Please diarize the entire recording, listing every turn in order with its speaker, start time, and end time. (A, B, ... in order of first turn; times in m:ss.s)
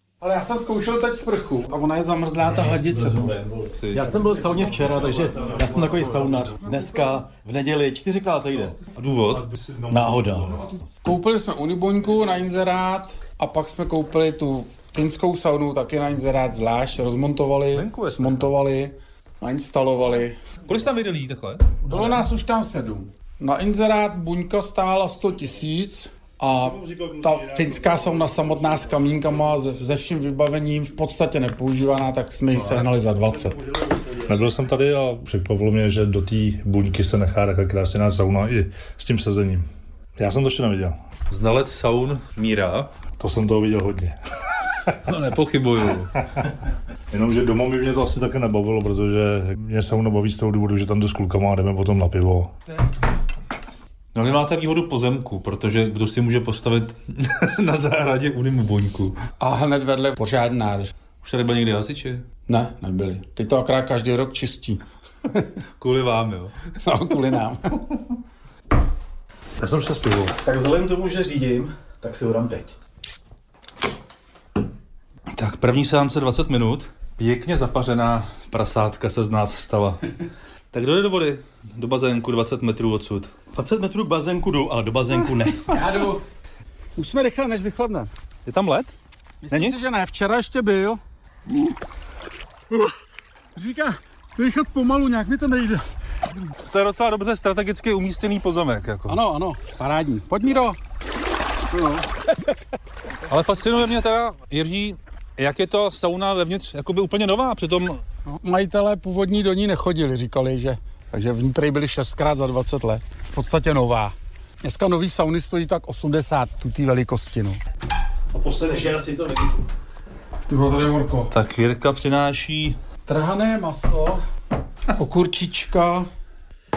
0:00.2-0:03.7 A
0:03.8-0:04.3 B
0:03.9-0:08.8 C
0:08.9-0:10.6 B
0:09.8-0:10.6 C
0:10.7-0:20.4 A
0:17.7-0:18.5 B
0:20.7-0:22.2 B
0:21.8-0:33.6 A
0:33.8-0:39.6 D
0:40.2-0:41.0 D
0:41.3-0:42.9 B
0:43.2-0:44.2 D
0:45.0-0:46.2 B
0:47.1-0:52.5 D
0:54.1-0:59.2 B
0:59.4-1:00.9 A
1:01.2-1:02.2 B
1:02.5-1:04.8 A
1:05.8-1:06.6 B
1:06.8-1:07.8 A
1:09.6-1:10.3 B
1:10.4-1:12.8 C
1:15.3-1:20.1 B
1:20.7-1:23.5 B
1:23.5-1:25.8 C
1:25.7-1:26.2 A
1:27.0-1:28.1 A
1:28.5-1:28.9 B
1:29.4-1:31.0 A
1:29.5-1:29.8 B
1:33.6-1:35.8 A
1:36.6-1:39.2 B
1:39.1-1:40.8 A
1:41.7-1:42.1 A
1:43.3-1:48.0 B
1:48.3-1:57.6 A
1:58.4-1:59.6 C
2:00.5-2:01.3 A
2:01.3-2:02.8 B
2:03.1-2:04.2 A
2:04.9-2:06.1 A